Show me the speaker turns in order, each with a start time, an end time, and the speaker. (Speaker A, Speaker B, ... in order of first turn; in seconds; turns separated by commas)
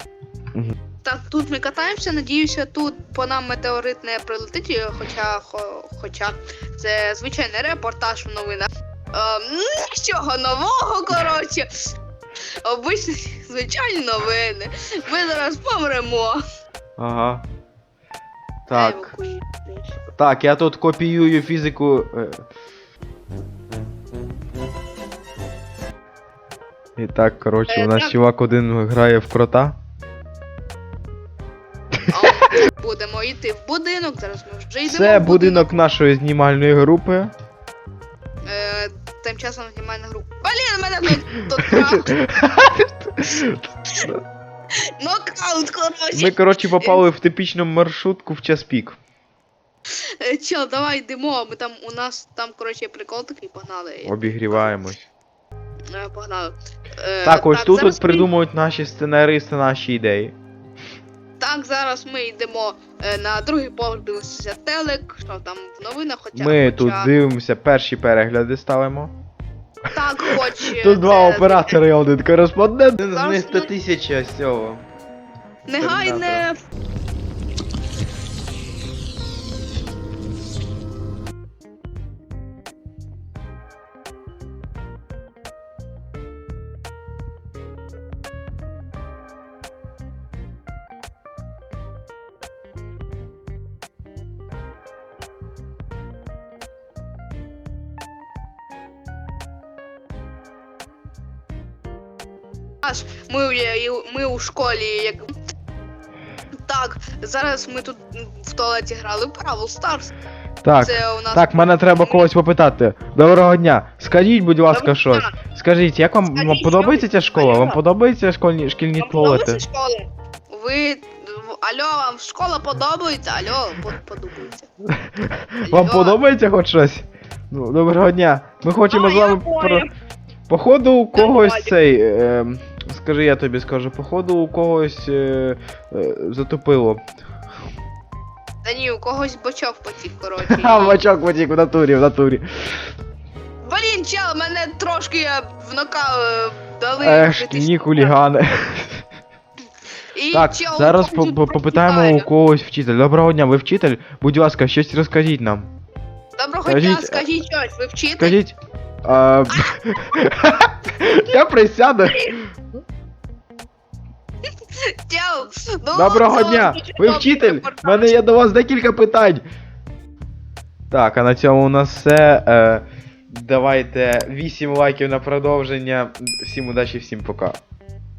Speaker A: 1.0-11.7, Speaker A: 12.7-16.4, Speaker B: 17.0-17.4, Speaker B: 18.7-19.1, Speaker A: 18.7-19.9, Speaker B: 20.2-22.4, Speaker B: 27.0-29.8, Speaker A: 27.7-28.1, Speaker A: 32.1-35.7, Speaker B: 34.9-37.3, Speaker A: 38.5-42.1, Speaker B: 41.7-44.1, Speaker A: 45.0-47.0, Speaker B: 46.1-49.0, Speaker A: 50.2-54.7, Speaker B: 54.0-55.1, Speaker A: 55.9-58.3, Speaker B: 57.2-60.4, Speaker A: 61.4-67.1, Speaker B: 66.3-69.1, Speaker A: 69.9-71.8, Speaker B: 70.3-74.8, Speaker A: 73.0-73.7, Speaker A: 75.7-76.6, Speaker B: 75.8-76.5, Speaker A: 102.8-105.3, Speaker A: 106.7-110.1, Speaker B: 110.6-119.6, Speaker A: 110.8-112.3, Speaker A: 114.7-115.3, Speaker A: 116.3-117.8, Speaker A: 119.0-124.7, Speaker B: 124.9-129.9, Speaker A: 125.7-126.2, Speaker A: 128.9-129.9, Speaker B: 130.5-137.0, Speaker A: 131.2-131.7, Speaker A: 138.6-141.0, Speaker B: 140.4-142.4, Speaker A: 143.6-148.2, Speaker B: 147.0-149.0, Speaker A: 150.1-152.3, Speaker B: 150.3-155.7, Speaker A: 156.4-158.4, Speaker B: 156.7-157.3, Speaker B: 158.2-162.4, Speaker A: 162.1-162.4, Speaker A: 164.8-168.2, Speaker B: 165.9-169.4, Speaker B: 170.9-177.6